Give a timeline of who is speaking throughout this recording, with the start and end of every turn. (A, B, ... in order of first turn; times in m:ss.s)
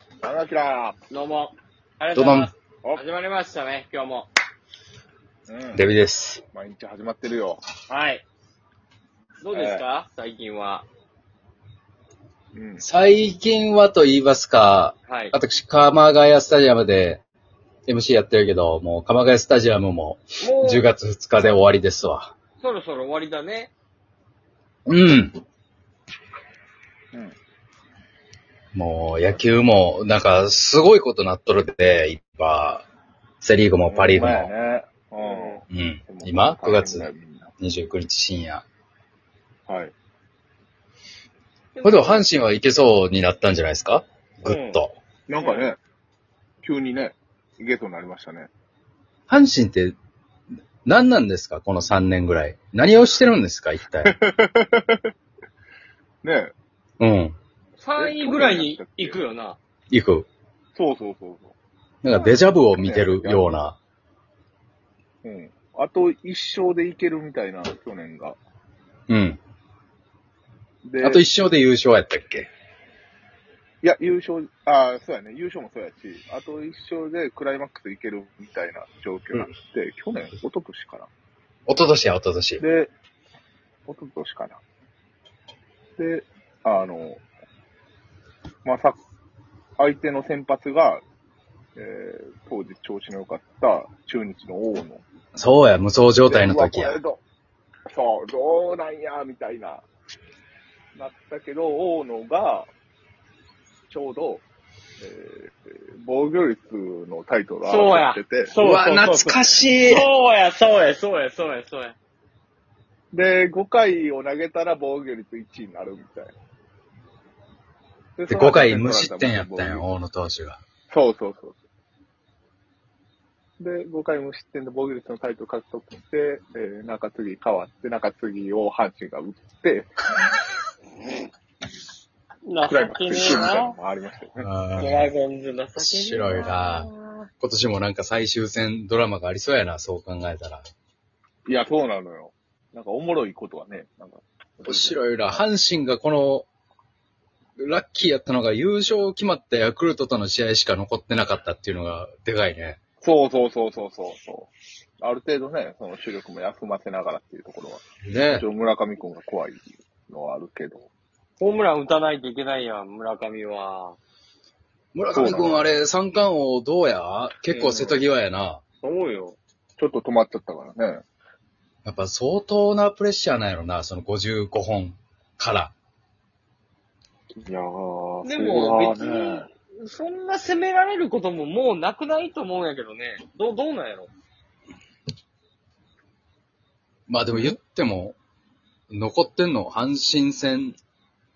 0:00.2-0:01.0 A
0:01.1-0:04.3 B
0:02.2-0:02.5 C
0:05.5-0:05.9 A
0:05.7-0:06.4 C
0:06.5-0:07.6 A
0:07.9-0:08.2 B
0:09.4-0:10.9 B
0:09.5-0:09.8 A
0:12.5-0:12.8 A
0:12.8-0:17.2 C
0:15.1-0:15.4 B
0:17.9-0:22.3 C
0:20.4-0:20.9 B
0:22.6-0:23.7 B
0:24.9-0:25.4 C
0:28.7-0:32.8 C
0:33.4-0:34.5 C
0:33.9-0:37.5 A
0:35.2-0:35.6 B
0:35.7-0:38.6 C
0:39.7-0:39.9 A
0:41.8-0:42.3 B
0:41.8-0:45.0 C
0:44.4-0:44.8 B
0:45.3-0:45.8 A
0:45.3-0:45.7 B
0:46.6-0:48.5 A
0:49.3-0:50.0 C
0:50.8-0:54.1 C
0:54.0-0:55.0 A
0:56.2-0:56.5 A
0:57.0-0:57.4 C
0:57.8-0:59.6 B
0:58.0-0:59.2 A
0:59.9-1:00.3 C
1:00.8-1:01.5 A
1:02.0-1:03.8 C
1:02.1-1:03.5 A
1:05.2-1:08.4 A
1:09.1-1:09.4 C
1:10.8-1:11.2 A
1:11.0-1:12.5 C
1:13.8-1:21.1 A
1:21.7-1:22.6 C
1:22.6-1:22.9 A
1:23.9-1:24.6 A
1:26.0-1:27.2 A
1:28.6-1:29.0 A
1:29.8-1:31.0 A
1:31.8-1:35.0 A
1:35.4-1:37.0 C
1:36.3-1:37.2 A
1:37.9-1:39.8 A
1:41.0-1:42.7 A
1:43.9-1:44.4 A
1:45.0-1:48.5 A
1:47.6-1:52.0 B
1:48.6-1:50.1 C
1:53.1-1:56.3 A
1:58.2-1:59.9 A
1:58.3-2:00.6 C
2:00.9-2:01.6 A
2:03.6-2:09.9 A
2:12.5-2:13.8 B
2:12.7-2:14.5 A
2:14.4-2:15.1 C
2:14.8-2:17.3 B
2:15.8-2:16.9 C
2:17.4-2:20.6 C
2:21.5-2:25.4 A
2:24.7-2:26.5 C
2:27.6-2:32.8 C
2:33.0-2:40.9 A
2:38.0-2:38.5 C
2:41.4-2:44.0 B
2:44.9-2:48.6 C
2:45.1-2:45.7 A
2:47.5-2:48.0 B
2:48.8-2:49.4 B
2:49.8-2:51.0 A
2:51.8-2:55.7 C
2:57.4-2:59.5 A
2:58.2-3:04.1 B
3:07.1-3:08.2 C
3:07.3-3:07.6 A
3:08.9-3:10.8 C